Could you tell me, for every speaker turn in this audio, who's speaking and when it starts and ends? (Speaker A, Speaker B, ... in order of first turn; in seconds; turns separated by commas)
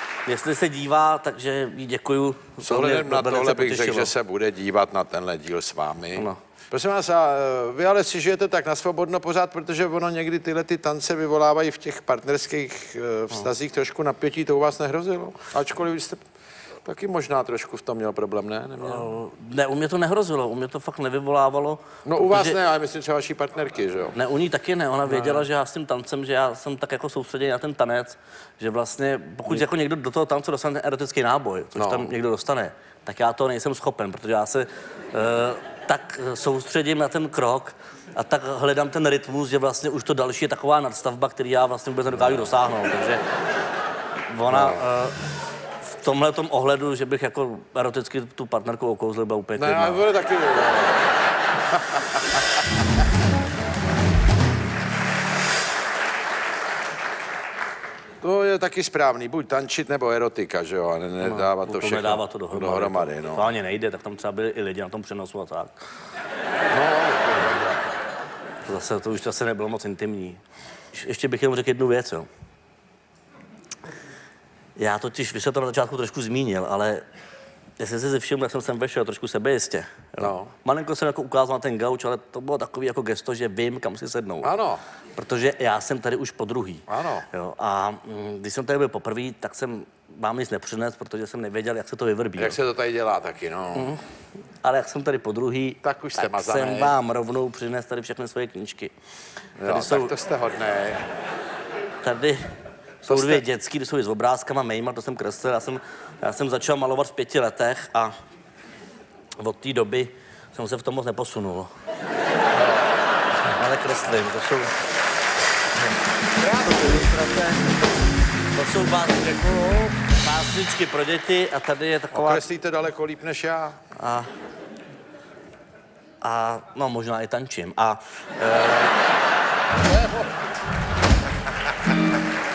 Speaker A: 0.2-4.1, Speaker B: 2.6-16.2, Speaker B: 16.8-19.1, Speaker A: 18.8-22.6, Speaker B: 22.1-24.2, Speaker A: 24.1-43.2, Speaker B: 25.1-25.5, Speaker B: 31.7-32.1, Speaker A: 44.3-45.2, Speaker B: 44.5-44.8, Speaker A: 45.8-50.0, Speaker B: 49.6-51.0, Speaker B: 51.8-52.2, Speaker B: 58.2-63.5, Speaker A: 61.2-65.8, Speaker B: 66.7-67.8, Speaker A: 68.7-72.3, Speaker A: 74.8-77.0, Speaker A: 77.8-84.5, Speaker B: 80.2-80.5, Speaker B: 84.4-84.8, Speaker A: 85.2-92.6, Speaker B: 86.9-87.3, Speaker B: 92.4-93.9, Speaker A: 93.7-94.0, Speaker A: 94.6-98.9, Speaker B: 95.8-97.0, Speaker B: 99.6-101.0, Speaker A: 99.6-100.1, Speaker A: 102.0-102.4, Speaker A: 103.0-108.1, Speaker B: 103.1-103.4, Speaker A: 109.4-111.7, Speaker A: 113.5-114.7, Speaker B: 116.4-117.1, Speaker A: 116.5-117.6, Speaker A: 118.5-122.4, Speaker B: 122.1-123.8, Speaker A: 123.9-124.3, Speaker A: 126.2-129.0